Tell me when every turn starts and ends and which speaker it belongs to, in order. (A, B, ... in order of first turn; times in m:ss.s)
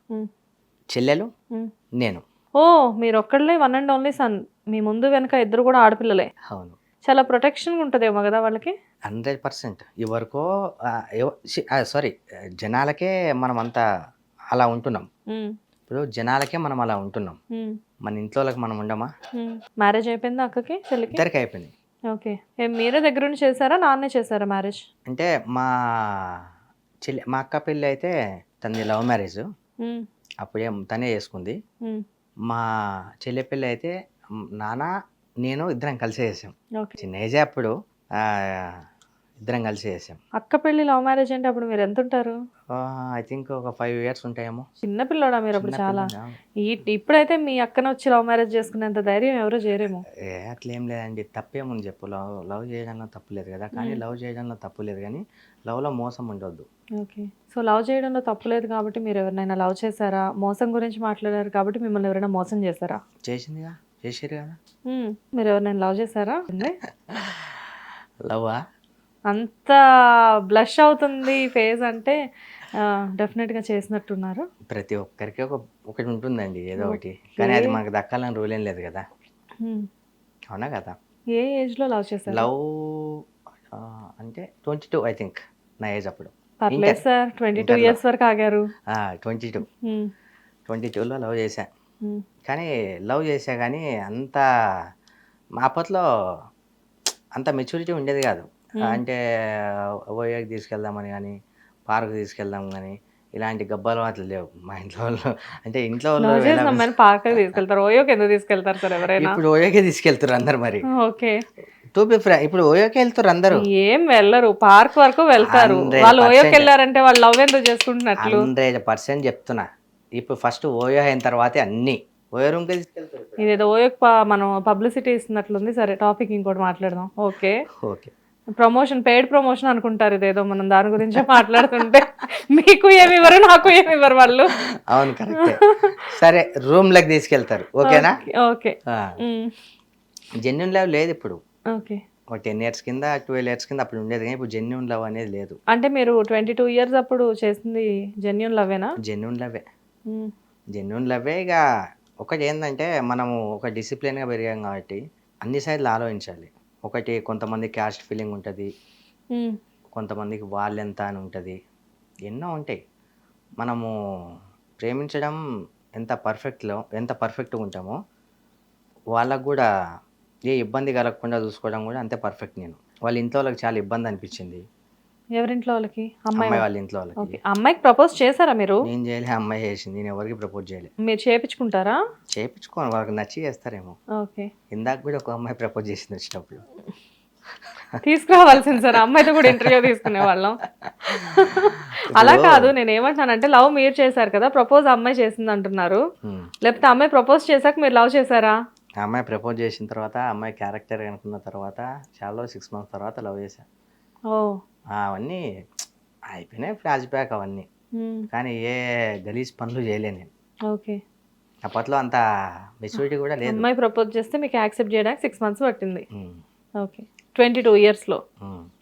0:00.9-0:01.3 A
0:02.6-0:06.3 B
0:06.5-0:06.8 A
0:07.1-0:08.7 B
0:09.1-0:13.8 A
0:14.5-0:15.1 A
0:15.9-0:17.4 A
0:18.1-0:19.1 A
0:19.4-0:21.2 B
0:21.1-0:21.7 A
0:22.1-0:24.8 B
0:25.1-0:26.4 A
0:27.1-0:29.4 A
0:30.4-0:31.6 A
0:33.2-0:33.9 A
0:34.6-0:34.9 A
0:35.4-0:38.8 A
0:39.4-0:40.2 A
0:40.4-0:42.4 B
0:42.8-0:44.7 A
0:44.8-0:50.0 B
0:45.6-0:46.4 A
0:50.2-0:56.7 A
0:53.8-0:54.0 B
0:57.0-1:03.0 B
1:03.3-1:04.6 A
1:04.9-1:06.8 B
1:07.1-1:07.6 A
1:08.3-1:08.6 A
1:09.3-1:09.8 B
1:10.5-1:12.2 B
1:12.8-1:14.4 B
1:14.7-1:19.1 A
1:16.8-1:17.8 B
1:19.6-1:19.9 B
1:20.5-1:21.0 A
1:21.4-1:22.5 B
1:22.3-1:23.2 A
1:23.7-1:27.0 A
1:26.6-1:28.7 B
1:27.6-1:28.0 A
1:28.9-1:29.7 A
1:29.7-1:30.1 B
1:30.7-1:31.7 A
1:32.5-1:34.4 A
1:35.6-1:36.0 A
1:37.4-1:41.4 A
1:41.9-1:47.6 A
1:46.2-1:49.4 B
1:49.1-1:50.9 A
1:51.0-1:51.4 B
1:52.0-1:53.7 A
1:53.5-1:58.5 B
1:55.4-1:56.7 A
1:58.2-1:59.7 A
2:00.2-2:03.5 A
2:03.4-2:07.6 B
2:07.8-2:08.1 A
2:08.6-2:14.5 B
2:11.2-2:11.9 A
2:14.9-2:18.2 A
2:15.3-2:16.0 B
2:17.9-2:19.5 B
2:18.9-2:19.2 A
2:20.4-2:21.4 A
2:21.7-2:22.0 B
2:22.3-2:25.6 A
2:25.7-2:28.9 B
2:29.0-2:29.6 A
2:30.7-2:31.6 A
2:32.2-2:38.7 A
2:40.0-2:41.6 A
2:42.3-2:42.8 A
2:43.6-2:43.9 A
2:44.8-2:45.4 A
2:46.0-2:48.0 A
2:49.2-2:49.7 A
2:50.5-2:54.6 A
2:55.4-2:56.7 B
2:56.4-2:57.4 A
2:57.2-2:58.8 B
2:58.8-3:00.9 A
3:01.0-3:02.0 B
3:02.4-3:04.0 A
3:04.2-3:04.5 B
3:04.7-3:06.6 A
3:08.0-3:16.0 B
3:08.8-3:10.3 A
3:10.8-3:11.5 A
3:12.1-3:12.7 A
3:16.2-3:16.5 A
3:16.6-3:18.6 B
3:19.0-3:23.6 A
3:24.3-3:24.6 B
3:25.0-3:25.4 A
3:26.3-3:27.7 A
3:28.0-3:28.3 B
3:28.3-3:30.3 A
3:30.7-3:31.0 B
3:31.6-3:32.2 A
3:32.8-3:33.7 A
3:33.4-3:36.1 B
3:36.1-3:36.4 A
3:36.8-3:38.2 B
3:38.4-3:38.7 A